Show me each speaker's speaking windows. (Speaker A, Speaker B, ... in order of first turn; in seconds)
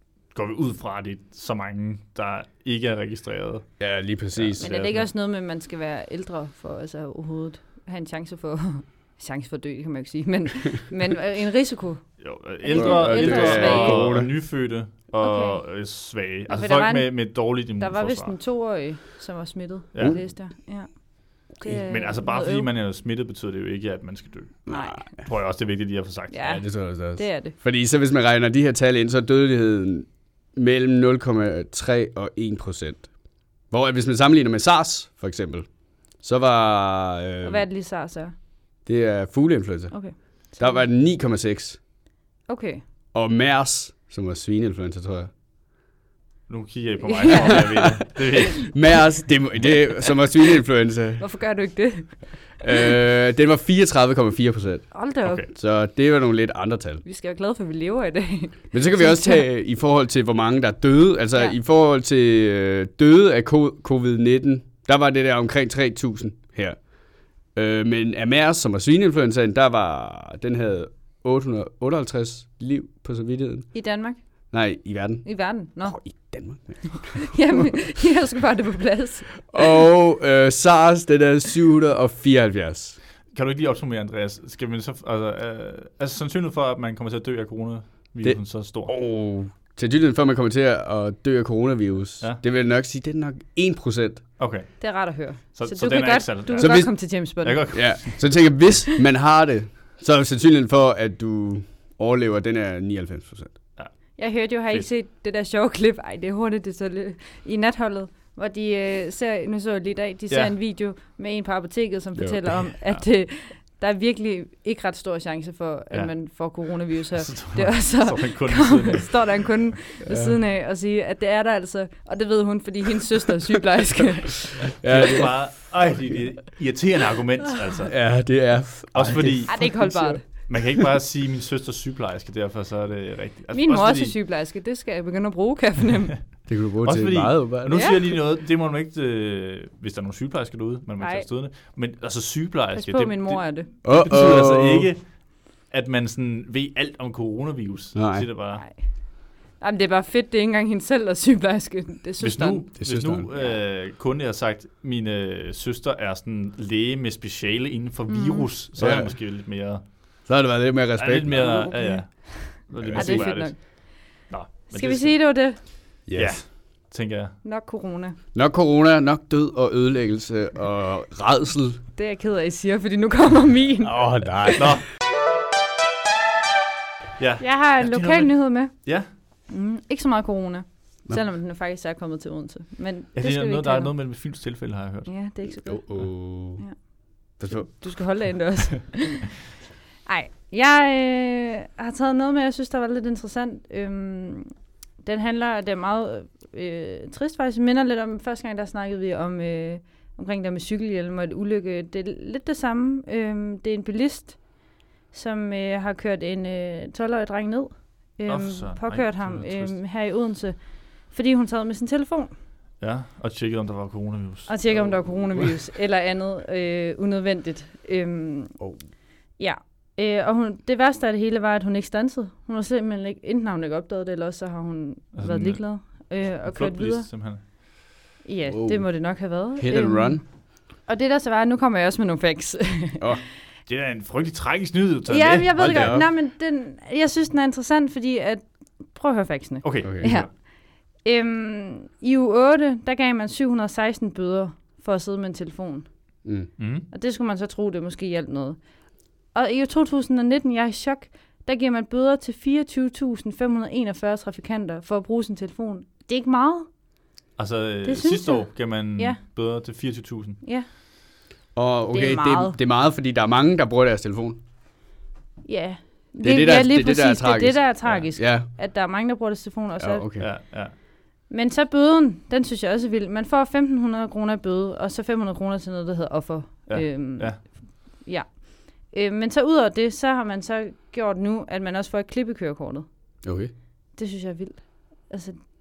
Speaker A: 0.3-3.7, 4.3-5.1, 12.2-18.4, 19.9-20.2, 21.7-26.6, 46.5-48.8, 55.2-55.5, 83.3-88.9, 94.4-98.3, 103.8-104.9, 117.1-119.6, 124.7-128.1, 128.9-134.1, 136.8-148.6, 152.2-159.8, 161.0-167.3, 174.6-174.8, 177.2-179.1, 183.1-185.1, 208.3-209.8, 212.8-214.6, 225.1-227.4, 233.7-236.0, 239.6-240.3, 246.6-246.9, 257.4-260.4, 270.2-270.7, 276.7-277.4
Speaker B: 3.8-4.6, 12.7-14.3, 24.7-25.0, 26.5-33.1, 33.7-35.7, 36.2-37.6, 38.8-41.8, 43.1-45.3, 47.4-51.2, 52.6-54.9, 55.5-57.0, 58.7-66.8, 67.5-73.7, 74.5-75.2, 75.8-77.7, 79.5-83.0, 88.2-94.2, 96.6-97.1, 97.7-103.5, 112.2-112.6, 120.1-120.3, 124.8-125.3, 127.9-130.8, 136.5-137.9, 143.8-144.9, 147.9-148.3, 152.8-153.3, 158.8-159.1, 160.2-161.7, 162.8-163.3, 166.1-166.4, 168.3-171.8, 173.8-174.8, 185.6-186.6, 187.4-187.7, 214.9-215.5, 228.5-230.2, 235.6-236.1, 239.8-240.1, 261.5-264.4, 266.2-268.5, 269.8-270.3, 283.2-283.5
Speaker C: 4.6-14.1, 15.2-15.7, 16.5-22.7, 24.7-25.1, 26.3-27.5, 37.4-38.3, 39.9-40.8, 42.5-42.8, 47.0-47.9, 51.2-52.8, 54.9-55.4, 57.0-59.4, 73.7-74.2, 75.2-76.1, 77.0-79.5, 94.8-98.1, 104.2-124.7, 129.5-130.2, 133.5-136.2, 137.7-138.0, 141.0-141.3, 142.7-143.7, 148.5-152.7, 158.1-158.5, 161.3-163.9, 164.7-165.6, 167.4-168.2, 171.9-174.6, 177.4-178.8, 179.5-183.9, 185.1-186.8, 187.3-189.4, 190.1-212.3, 214.5-218.6, 219.4-227.1, 228.2-233.1, 235.1-245.9, 246.9-248.6, 249.3-256.7, 257.8-259.2, 261.9-262.6, 265.4-270.1, 271.3-282.9, 283.9-285.4